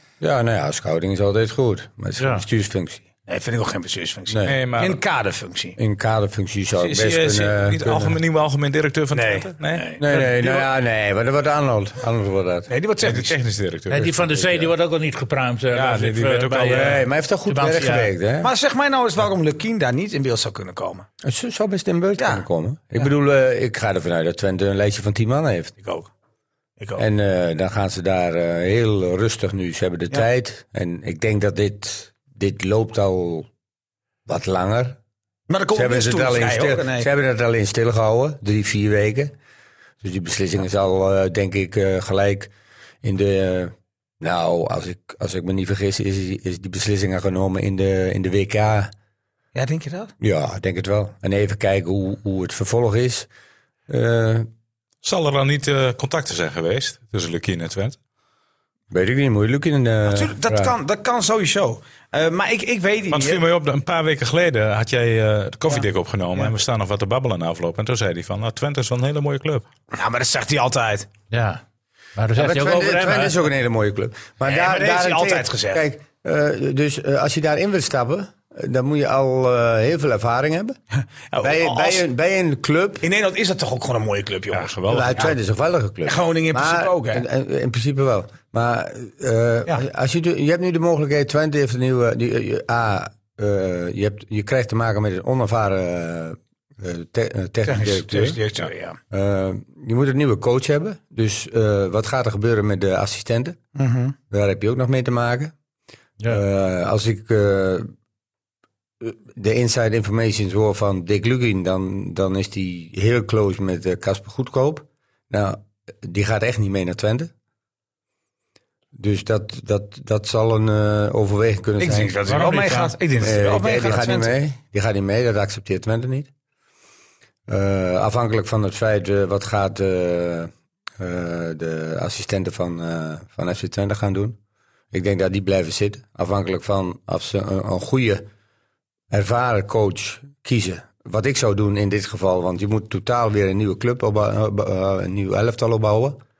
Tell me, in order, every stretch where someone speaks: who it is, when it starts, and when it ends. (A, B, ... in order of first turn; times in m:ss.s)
0:00.2-0:03.0 A
0:02.2-0:02.4 B
0:03.3-0:05.8 C
0:04.3-0:04.5 A
0:04.4-0:05.0 D
0:05.8-0:08.2 A
0:06.8-0:09.8 D
0:09.1-0:10.0 C
0:10.0-0:12.7 A
0:10.1-0:10.7 B
0:12.7-0:13.4 C
0:13.0-0:14.5 D
0:13.9-0:18.1 B
0:14.3-0:14.7 A
0:15.7-0:17.0 D
0:16.7-0:18.5 A
0:18.4-0:21.0 C
0:21.2-0:25.7 A
0:22.2-0:22.4 C
0:25.8-0:26.1 C
0:27.0-0:33.5 A
0:34.3-0:35.0 A
0:35.5-0:37.1 C
0:35.7-0:39.3 A
0:40.0-0:42.5 A
0:43.0-0:48.9 A
0:49.5-0:50.1 C
0:50.2-0:53.3 A
0:53.9-0:54.5 A
0:55.0-0:58.0 D
0:58.9-1:00.7 A
1:00.1-1:03.4 C
1:03.1-1:09.6 D
1:09.9-1:11.1 C
1:11.3-1:11.6 B
1:12.2-1:13.4 B
1:12.3-1:20.8 A
1:14.4-1:15.8 C
1:21.3-1:22.0 C
1:21.4-1:23.0 A
1:23.0-1:25.3 C
1:24.5-1:25.2 D
1:24.9-1:38.4 A
1:26.0-1:27.2 C
1:37.6-1:39.0 C
1:39.1-1:43.6 A
1:43.8-1:44.2 C
1:44.3-1:45.5 A
1:46.3-1:47.9 A
1:49.0-1:57.3 A
1:58.9-2:02.2 A
2:01.8-2:04.3 C
2:02.3-2:02.9 B
2:03.2-2:06.3 A
2:07.5-2:14.4 A
2:14.9-2:18.2 A
2:19.1-2:26.2 A